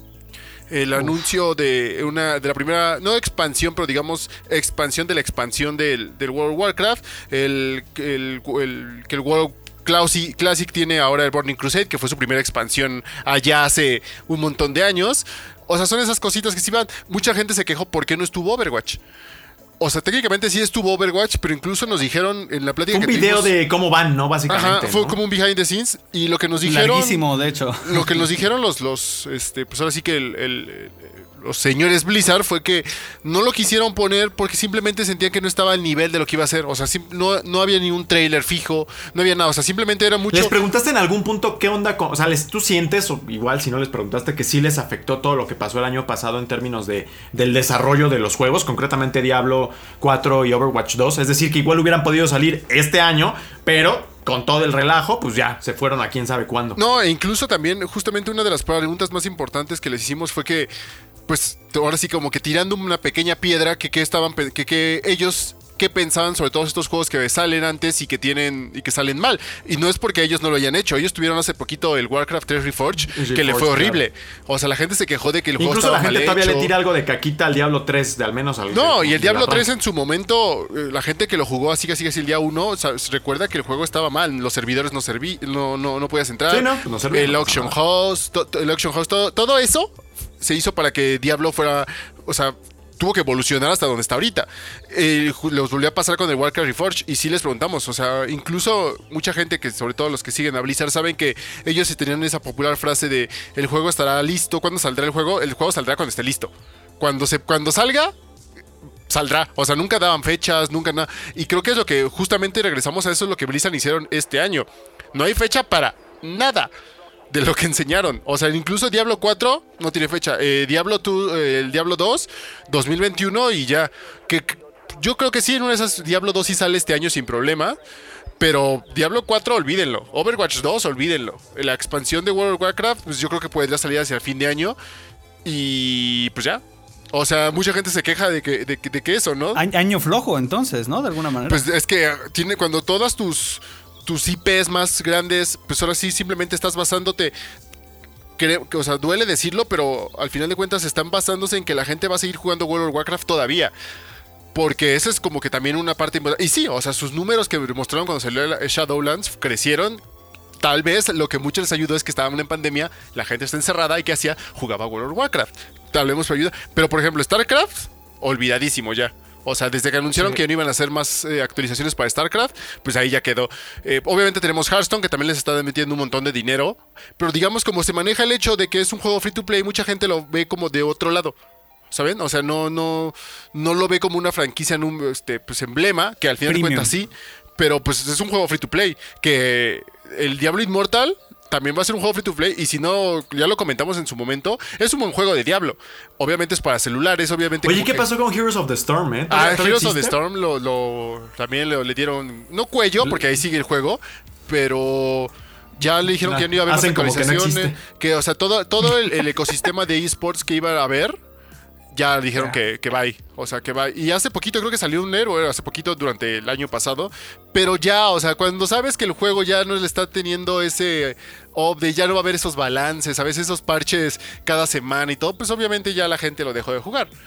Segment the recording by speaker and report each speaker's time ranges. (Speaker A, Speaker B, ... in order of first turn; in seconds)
Speaker A: 0.7-19.0, 19.8-23.5, 24.5-27.2, 27.8-40.5, 56.8-60.7, 61.3-76.7, 78.7-108.1, 109.1-116.7, 117.3-127.8, 128.4-134.8, 135.4-139.6, 141.5-147.3, 148.4-153.7, 154.5-160.0, 160.6-181.3, 181.9-198.1, 199.3-211.2, 211.9-227.1
Speaker B: 22.9-25.2, 40.3-56.8, 73.1-74.0, 75.6-79.7, 86.5-87.8, 197.6-200.2, 206.2-207.8
Speaker C: 26.6-28.2, 139.5-141.6, 186.4-186.9